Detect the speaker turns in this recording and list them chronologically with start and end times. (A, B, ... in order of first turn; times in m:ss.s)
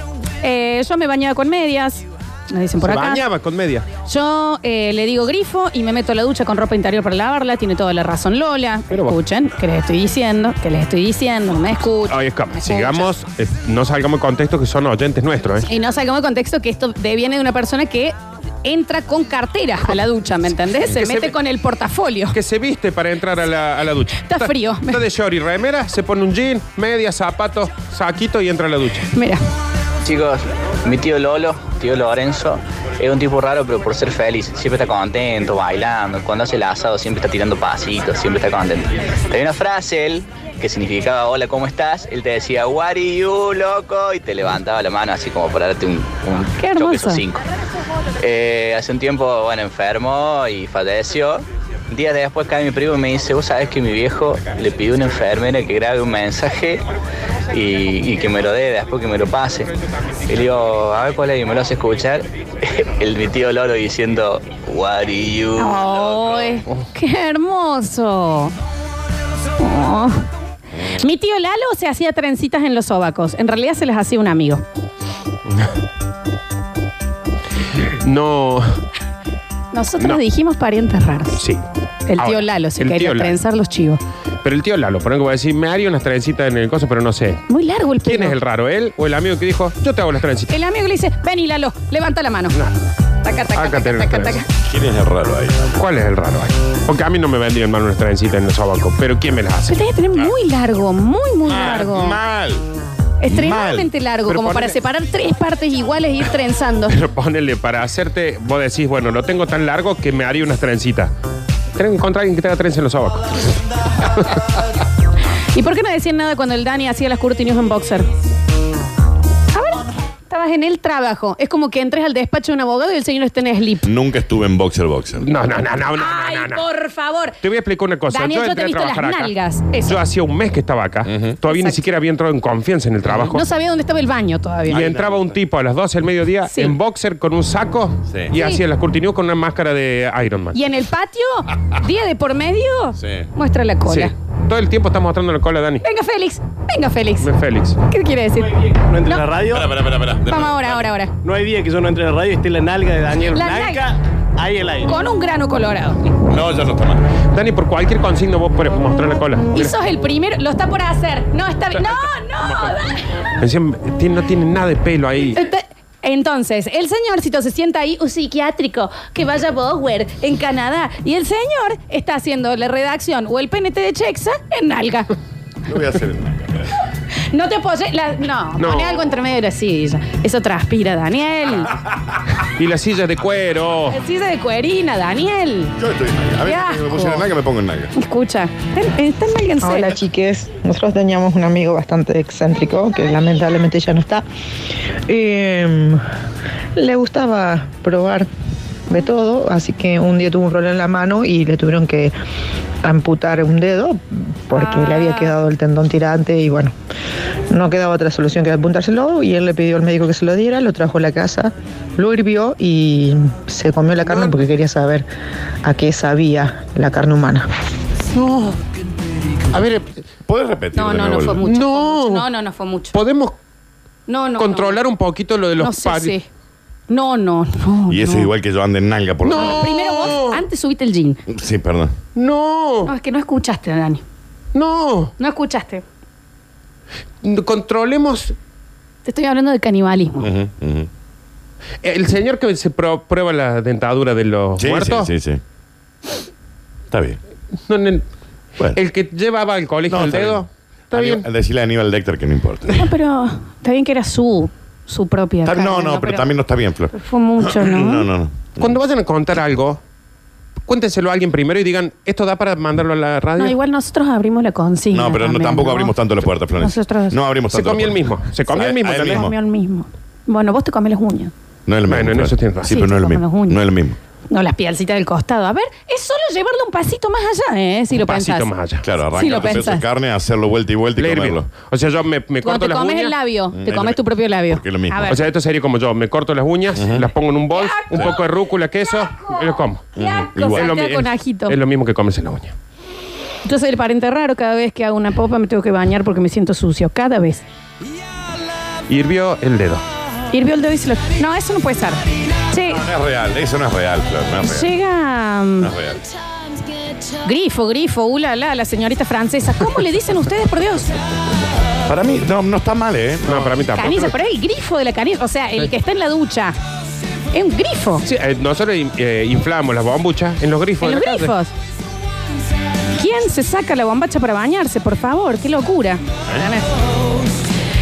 0:00.4-0:03.2 A
0:02.8-0:03.8 B
0:04.0-0:13.1 A
0:08.9-0:09.2 B
0:12.1-0:15.6 B
0:15.6-0:22.4 A
0:20.8-0:21.3 B
0:22.3-0:29.1 B
0:24.2-0:25.0 A
0:29.1-0:29.4 A
0:30.0-0:47.4 C
0:46.6-0:47.2 A
0:48.2-0:56.8 C
0:57.5-0:59.7 C
1:00.3-1:06.3 C
1:05.6-1:08.5 A
1:09.6-1:10.2 A
1:10.9-1:14.6 A
1:18.0-1:18.8 B
1:19.7-1:21.4 A
1:21.4-1:21.6 B
1:22.1-1:24.0 A
1:22.2-1:23.3 B
1:24.4-1:27.4 B
1:27.5-1:28.3 A
1:28.0-1:30.5 B
1:30.5-1:32.6 A
1:33.2-1:34.5 A
1:33.5-1:34.4 B
1:34.6-1:35.8 D
1:35.8-1:39.8 B
1:39.7-1:42.2 A
1:41.5-1:42.6 D
1:43.2-1:47.0 A
1:43.3-1:43.9 D
1:44.3-1:44.8 B
1:46.9-1:51.1 B
1:51.8-1:53.4 B
1:55.5-1:58.1 A
1:59.5-2:03.8 A
2:03.8-2:05.2 D
2:05.2-2:06.6 B
2:05.9-2:07.4 A
2:07.4-2:13.4 B
2:08.1-2:10.0 A
2:11.1-2:11.4 D
2:11.5-2:11.9 A
2:13.3-2:14.9 A
2:14.7-2:15.4 D
2:14.7-2:20.6 B
2:16.5-2:16.7 A
2:18.3-2:18.6 A
2:20.5-2:24.1 A
2:23.0-2:23.3 D
2:23.8-2:25.8 B
2:25.8-2:27.3 A
2:27.2-2:27.8 B
2:27.9-2:29.3 A
2:28.9-2:29.6 E
2:29.4-2:30.8 D
2:30.2-2:31.2 A
2:31.2-2:34.8 E
2:33.3-2:33.9 A
2:34.8-2:36.0 A
2:36.3-2:37.0 D
2:37.3-2:39.7 B
2:39.5-2:43.0 A
2:41.7-2:42.8 B
2:43.4-2:45.4 B
2:45.3-2:55.1 A
2:55.6-2:56.7 D
2:57.3-3:01.7 A
2:58.6-2:59.1 B
3:02.6-3:04.0 B
3:03.9-3:05.7 A
3:05.8-3:07.9 D
3:06.4-3:07.3 A
3:07.9-3:09.9 A
3:09.6-3:14.2 F
3:15.1-3:16.0 F
3:16.8-3:18.3 F
3:18.9-3:22.1 F
3:22.8-3:26.7 F
3:24.5-3:25.4 A
3:27.5-3:35.1 F
3:34.0-3:34.4 B
3:35.6-3:37.4 F
3:38.0-3:38.6 B
3:39.5-3:40.0 B
3:40.2-3:41.4 D
3:40.7-3:42.9 A
3:41.4-3:42.2 B
3:42.9-3:43.3 B
3:44.1-3:44.8 A
3:44.4-3:46.1 B
3:45.6-3:46.2 A
3:46.9-3:48.3 A
3:47.9-3:49.7 D
3:49.2-3:50.4 B
3:49.3-3:51.2 A
3:51.3-3:51.9 D
3:52.2-3:52.9 B
3:52.8-3:54.0 A
3:54.5-3:55.1 B
3:55.2-3:55.8 A
3:57.2-3:58.3 B
3:59.0-4:00.3 A
4:00.2-4:00.9 D
4:01.8-4:05.1 B
4:04.6-4:05.4 D
4:06.9-4:07.2 D
4:07.7-4:08.0 B
4:08.7-4:11.2 B
4:09.9-4:12.8 D
4:12.7-4:16.3 A
4:15.4-4:18.7 D
4:16.9-4:18.1 A
4:18.6-4:19.8 B
4:20.7-4:23.5 B
4:23.4-4:25.9 A
4:24.9-4:29.3 D
4:26.6-4:27.2 A
4:27.5-4:29.3 B
4:29.0-4:31.3 A
4:31.7-4:34.0 D
4:31.9-4:32.7 B
4:32.7-4:33.6 A
4:34.3-4:38.5 A
4:37.9-4:38.8 B
4:38.8-4:41.4 D
4:39.1-4:39.8 A
4:41.0-4:43.2 B
4:42.4-4:45.2 A
4:43.5-4:45.1 D
4:45.1-4:49.8 B
4:46.8-4:47.0 D
4:47.5-4:48.2 A
4:50.0-4:50.7 D
4:50.0-4:51.6 A
4:50.5-4:52.5 B
4:53.4-4:57.4 A
4:58.9-4:59.8 B
5:00.3-5:02.8 A
5:02.7-5:04.7 D
5:04.4-5:05.7 A
5:05.6-5:06.0 D
5:07.2-5:11.0 A
5:11.8-5:13.5 D
5:13.2-5:14.1 B
5:13.8-5:16.6 A
5:17.3-5:18.0 A
5:18.0-5:21.3 B
5:20.8-5:21.5 A
5:23.0-5:26.7 A